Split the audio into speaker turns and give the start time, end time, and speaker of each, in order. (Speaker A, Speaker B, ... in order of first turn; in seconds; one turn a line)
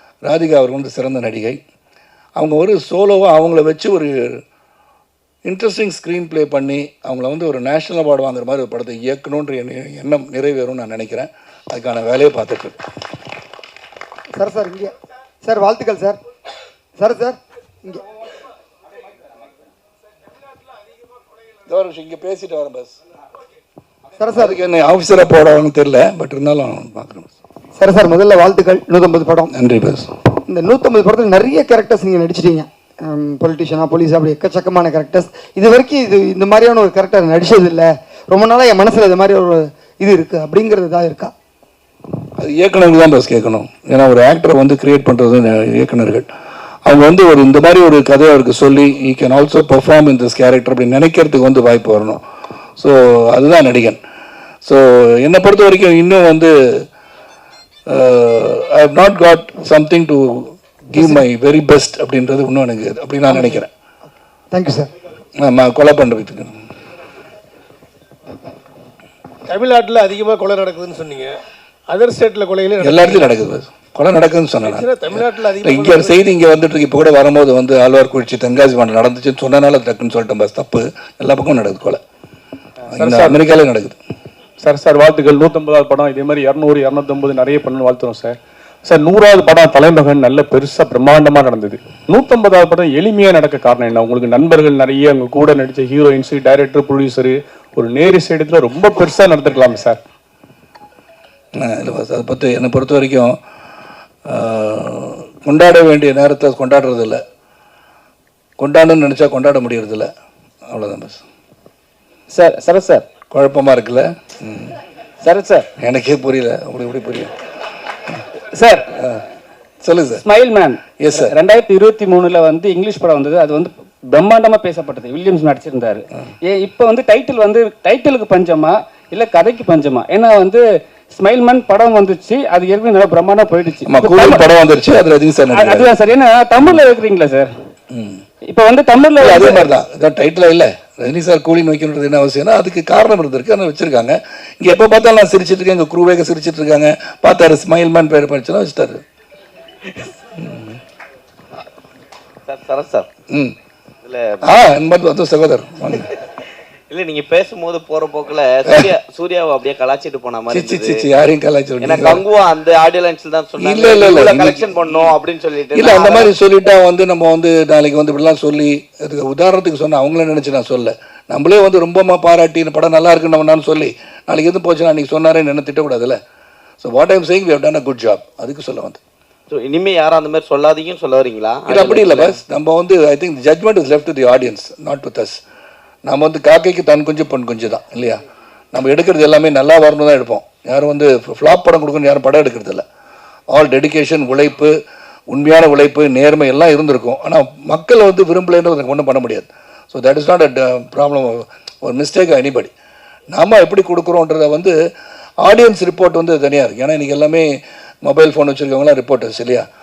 Speaker A: 0.2-1.6
Speaker A: 2.4-4.4
Speaker A: 5.5-12.8
Speaker B: 14.3-14.9
Speaker B: 15.4-16.2
Speaker B: 17.0-18.0
Speaker A: 21.7-23.0
Speaker B: 24.2-24.6
Speaker A: 24.4-27.3
Speaker B: 27.8-29.5
Speaker A: 29.5-30.1
Speaker B: 30.5-41.3
Speaker A: 42.4-46.3
Speaker A: 46.9-52.2
Speaker A: 52.8-54.0
Speaker A: 54.6-56.8
Speaker A: 57.9-63.7
Speaker B: 61.0-61.2
Speaker B: 63.3-63.6
Speaker B: 64.5-64.9
Speaker A: 65.4-66.5
Speaker C: 69.5-73.3
Speaker A: 72.8-82.0
Speaker C: 74.6-76.2
Speaker A: 82.9-84.0
Speaker D: 83.0-83.3
Speaker D: 84.6-88.3
Speaker D: 88.9-100.0
Speaker A: 101.6-103.4
Speaker A: 104.3-107.2
Speaker A: 108.6-110.1
Speaker A: 110.7-111.2
Speaker E: 112.3-113.0
Speaker A: 113.3-114.8
Speaker E: 115.2-115.7
Speaker A: 115.8-117.3
Speaker E: 118.5-119.0
Speaker A: 119.8-120.2
Speaker E: 120.2-130.6
Speaker A: 121.0-121.3
Speaker E: 131.2-134.5
Speaker A: 133.9-135.9
Speaker E: 135.5-137.5
Speaker A: 137.9-138.2
Speaker E: 138.5-139.7
Speaker A: 139.2-149.0
Speaker A: 150.4-150.8
Speaker F: 152.5-153.1
Speaker A: 153.3-153.6
Speaker F: 154.0-154.4
Speaker A: 154.4-156.1
Speaker F: 156.9-161.0
Speaker A: 158.7-158.9
Speaker A: 160.5-162.2
Speaker F: 161.8-166.3
Speaker A: 163.6-165.2
Speaker A: 165.7-176.2
Speaker A: 176.8-179.0
Speaker F: 179.5-182.4
Speaker A: 181.7-185.4
Speaker A: 186.1-188.2
Speaker A: 188.7-192.8
Speaker A: 193.5-194.8
Speaker A: 195.3-202.7
Speaker A: 203.3-204.7
Speaker A: 205.4-207.5
Speaker A: 208.0-209.7